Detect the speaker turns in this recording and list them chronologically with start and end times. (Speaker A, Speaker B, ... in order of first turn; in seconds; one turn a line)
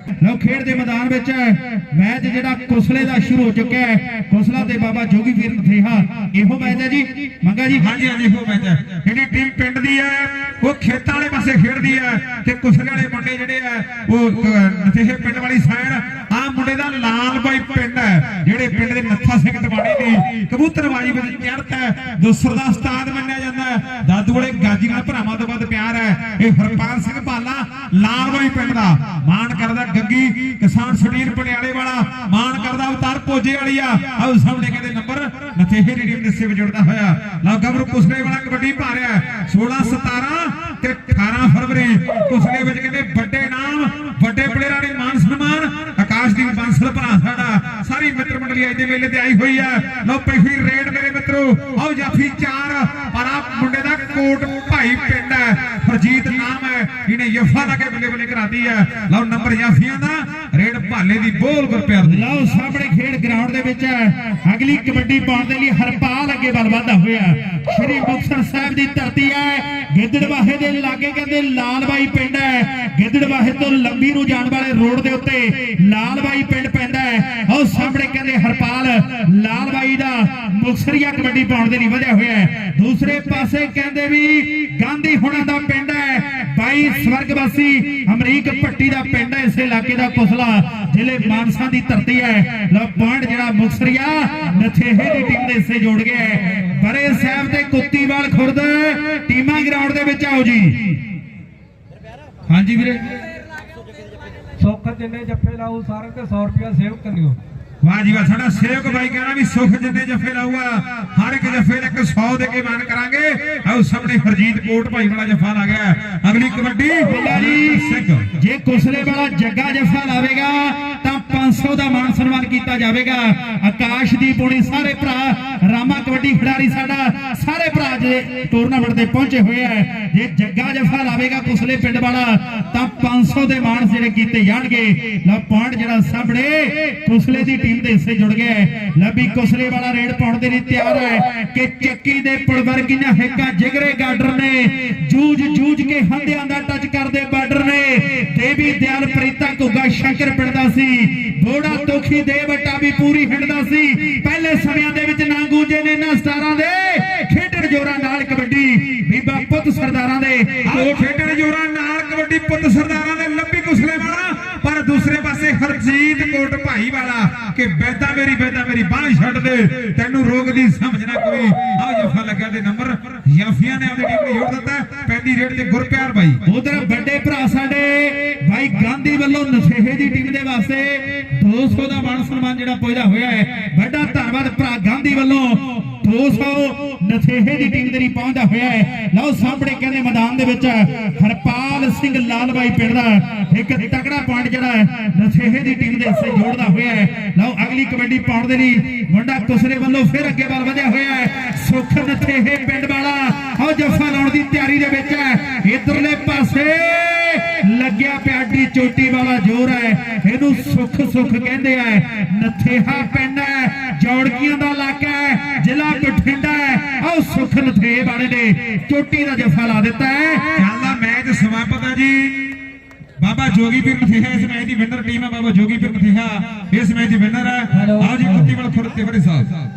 Speaker A: 0.2-7.9
Speaker B: 7.7-62.2
Speaker A: 62.0-101.0
Speaker A: 102.5-103.0
Speaker C: 104.6-107.3
Speaker B: 107.8-118.3
Speaker A: 117.0-160.9
Speaker B: 160.6-176.4
Speaker A: 176.4-220.6
Speaker B: 220.6-222.6
Speaker B: 223.2-229.5
Speaker C: 227.7-228.5